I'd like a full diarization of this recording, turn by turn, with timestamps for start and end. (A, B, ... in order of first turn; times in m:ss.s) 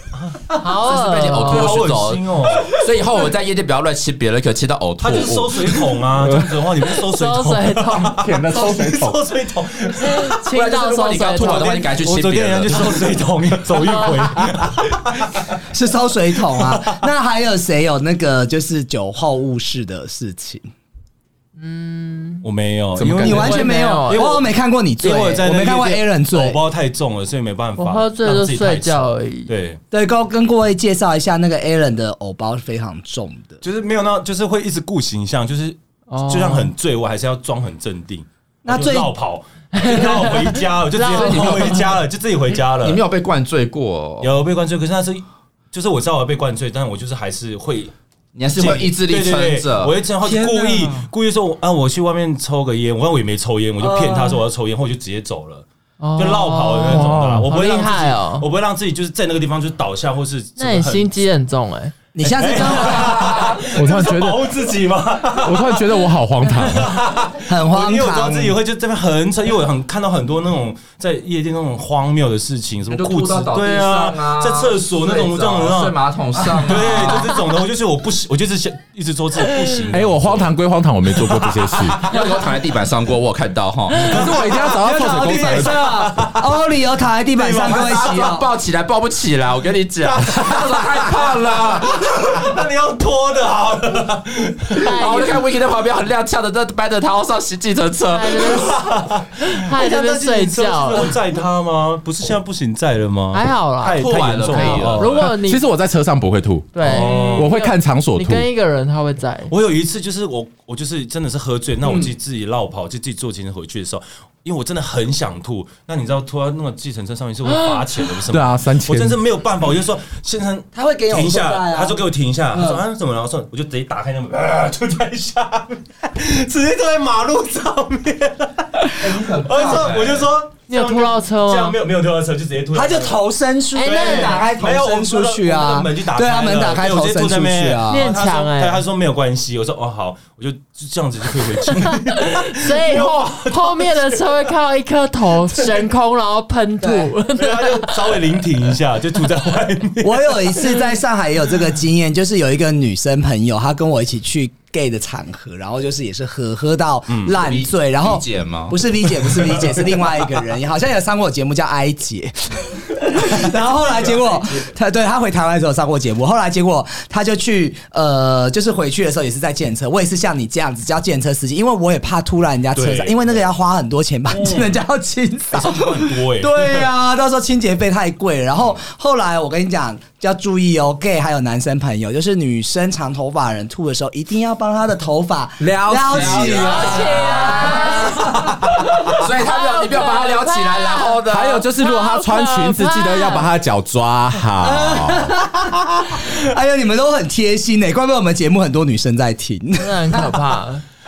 0:00.2-0:00.4 A
0:00.6-0:01.8 B
0:00.8-0:06.0 C
0:01.4-0:02.7 A
0:05.0-0:10.4 A
0:06.2-0:06.5 D
0:06.9-0:08.2 B
0:08.2-0:09.2 D
0:10.0-0:11.9 B
0:10.5-0:13.1 C
0:11.4-0:15.5 A
0:13.8-0:14.4 B
0:15.7-0:20.7 E
0:16.5-0:17.0 A
0:21.6-0:22.4 B
0:22.4-0:29.8 A
0:23.0-0:23.6 D
0:23.2-0:26.6 E
0:23.2-0:24.3 B
0:27.8-0:29.5 B
0:29.9-0:33.6 E
0:33.6-0:43.0 A
0:36.1-0:36.7 B
0:38.6-0:39.1 E
0:39.7-0:41.8 B
0:41.1-0:42.0 C
0:42.7-0:44.4 C
0:44.2-0:47.9 A
0:48.4-0:50.0 C
0:48.5-0:55.6 A
0:50.2-0:50.9 D
0:56.0-0:58.5 B
0:56.2-1:01.2 A
0:56.9-0:57.5 D
1:00.6-1:02.0 B
1:02.2-1:03.5 E
1:02.2-1:06.0 A
1:03.0-1:03.5 C
1:03.7-1:04.5 D
1:05.4-1:07.0 D
1:06.6-1:20.5 A
1:07.4-1:08.6 E
1:12.9-1:17.4 C
1:19.9-1:22.1 D
1:21.7-1:24.3 C
1:24.0-1:25.8 D
1:24.1-1:26.5 A
1:24.6-1:28.5 E
1:27.4-1:28.3 A
1:27.6-1:32.0 C
1:30.0-1:34.8 A
1:34.7-1:38.8 C
1:34.8-1:35.4 B
1:38.1-1:41.2 B
1:38.5-1:45.3 A
1:43.3-1:45.6 B
1:43.9-1:45.3 C
1:45.2-1:48.5 D
1:46.7-1:49.5 B
1:46.8-1:47.6 A
1:49.5-2:13.2 A
1:51.8-1:52.1 E
1:58.3-1:59.2 D
2:00.7-2:02.8 E
2:09.0-2:09.9 E
2:09.6-2:10.2 C
2:10.7-2:11.8 B
2:12.7-2:18.1 E
2:13.8-2:14.4 B
2:13.8-2:24.2 A
2:17.9-2:18.8 B
2:21.7-2:28.2 B
2:26.8-2:27.1 E
2:27.3-2:30.5 A
2:30.0-3:09.2 E
2:37.4-2:38.8 C
2:52.8-2:53.4 A
2:54.3-2:54.8 A
2:55.6-2:56.9 A
3:05.6-3:06.8 D
3:06.0-3:08.3 C
3:06.4-3:08.3 B
3:09.1-3:11.6 C
3:09.3-3:13.5 B
3:11.3-3:15.4 D
3:14.6-3:20.4 E
3:19.8-3:20.8 B